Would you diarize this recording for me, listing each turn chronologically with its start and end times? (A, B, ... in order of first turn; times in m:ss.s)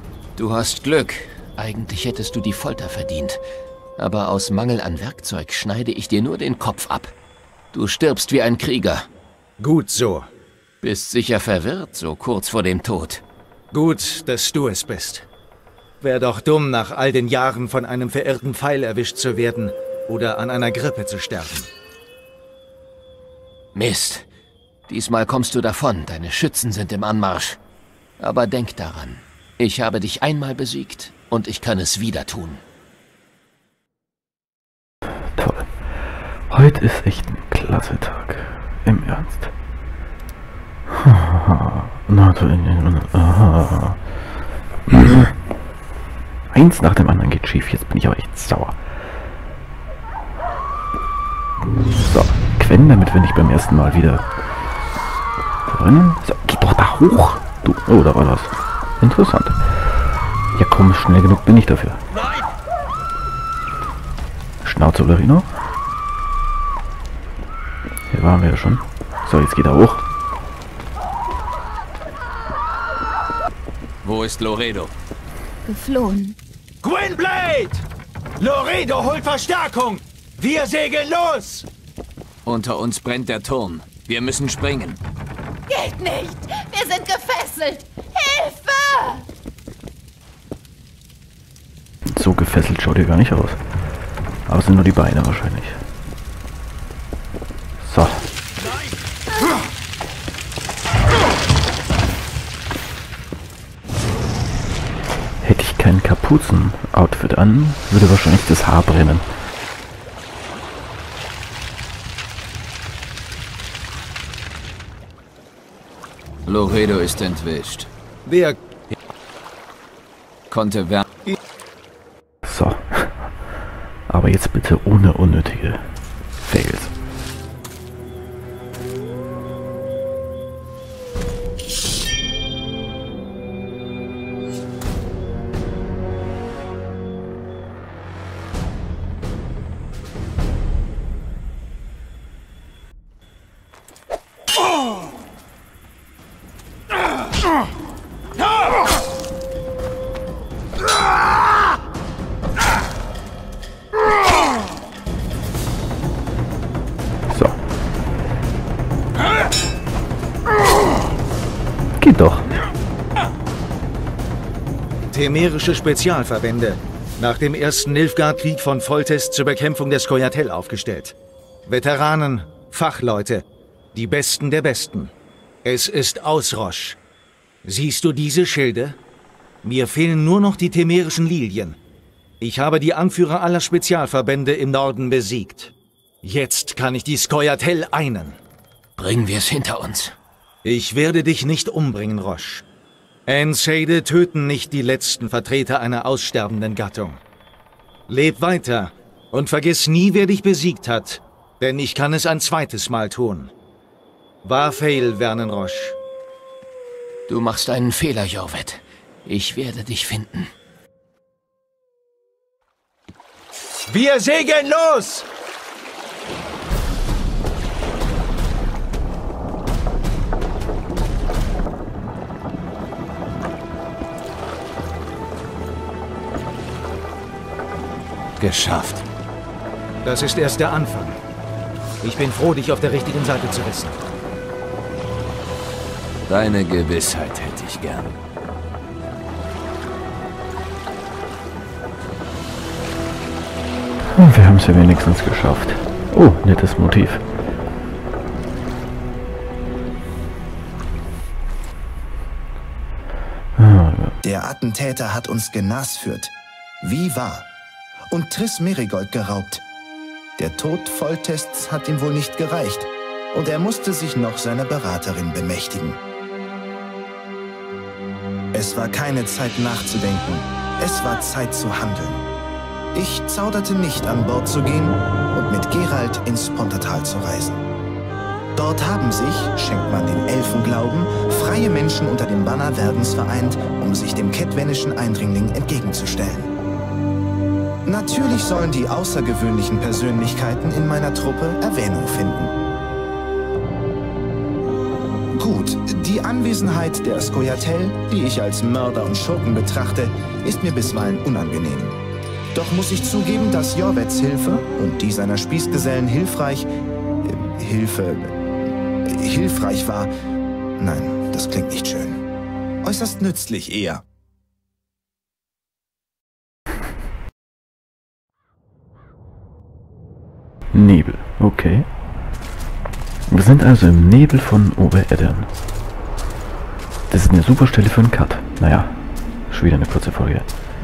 0:00.4-0:03.4 A
0:04.0-0:07.1 A
0:07.7-0:09.1 A
0:09.6-0:10.3 B
0:10.8-0:13.2 A
0:13.7-0:15.3 B
0:16.0-0:21.7 B
0:23.8-0:24.2 A
0:24.9-0:27.6 A
0:28.2-0:29.2 A
0:29.7-0:32.6 A
0:35.4-0:35.7 C
0:36.5-0:39.5 C
0:40.9-0:44.0 C
0:44.9-0:45.3 C
0:46.5-0:48.8 C
0:52.0-0:54.3 C
0:55.7-0:59.6 C
1:00.6-1:02.0 C
1:04.6-1:05.5 C
1:08.1-1:10.0 C
1:14.0-1:14.9 D
1:15.6-1:16.4 E
1:16.8-1:17.8 B
1:18.4-1:21.7 B
1:22.4-1:25.0 D
1:25.7-1:29.3 E
1:32.1-1:33.6 C
1:34.5-1:35.8 C
1:37.8-1:38.3 C
1:45.4-1:49.2 C
1:56.5-1:57.9 D
1:58.3-1:58.6 B
2:00.5-2:01.0 D
2:02.4-2:03.3 C
2:04.1-2:05.9 C
2:06.4-2:06.9 C
2:37.3-2:37.6 C
2:42.0-2:42.5 C
2:45.1-2:55.1 B
2:55.6-2:57.0 B
2:57.6-2:59.0 B
2:59.6-3:01.8 B
3:02.4-3:08.4 B
3:09.0-3:10.1 A
3:10.6-3:12.6 B
3:13.3-3:17.2 B
3:18.1-3:23.5 B
3:24.4-3:26.0 B
3:27.3-3:30.5 A
3:33.9-3:35.3 B
3:48.4-3:49.0 D
3:50.0-3:51.2 B
3:52.0-3:54.0 B
3:56.3-3:58.1 D
4:04.2-4:07.2 C
4:13.6-4:14.2 C
4:14.2-4:17.5 F
4:18.1-4:19.6 F
4:20.4-4:26.0 F
4:28.5-4:32.3 F
4:32.9-4:37.6 F
4:38.6-4:46.5 F
4:47.9-4:52.6 F
4:55.4-5:02.0 F
5:02.5-5:06.7 F
5:07.2-5:08.4 F
5:09.1-5:10.1 F
5:10.8-5:12.2 F
5:12.8-5:14.0 F
5:20.7-5:21.9 C
5:23.3-5:25.5 C
5:27.1-5:30.5 C